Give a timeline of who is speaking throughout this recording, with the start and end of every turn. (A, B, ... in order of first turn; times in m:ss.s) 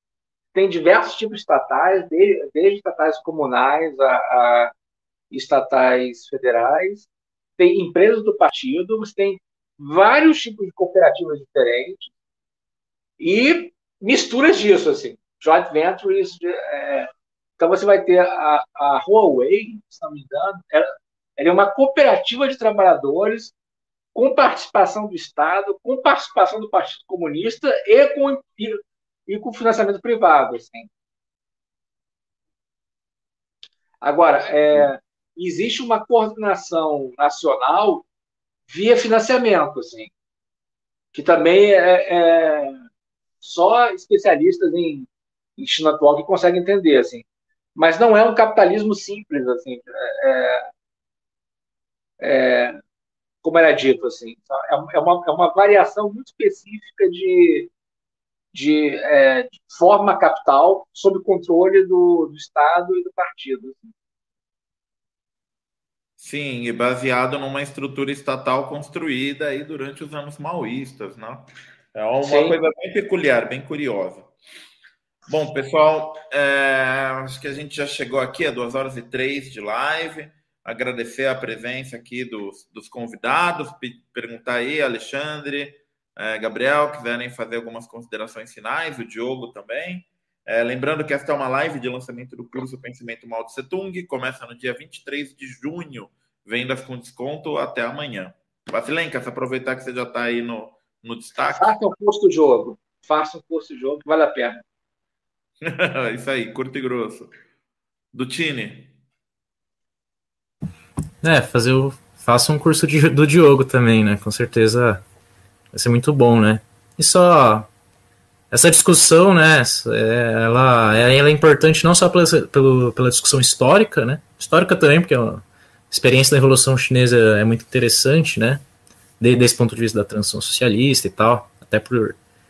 0:00.5-0:04.7 A
0:05.3-0:07.1 A
0:07.6-0:12.1 A
0:13.2-0:23.5 A
0:24.1-0:30.9 A
0:34.0-0:38.0 A
0:38.7-0:40.1 A
0:41.1-0:42.8 A
0:43.4-0:47.2 A
0:47.8-0:50.7 A
0:52.2-0:52.8 A
0:53.4-0:57.7 A
0:58.5-1:03.9 A
1:06.2-1:14.3 B
1:12.2-1:12.6 A
1:15.3-1:41.8 B
1:41.5-1:44.6 A
1:45.6-1:47.3 B
1:48.1-1:48.9 B
1:51.2-1:55.0 C
1:55.7-1:57.7 C
1:58.5-2:08.6 C
2:09.2-2:12.2 C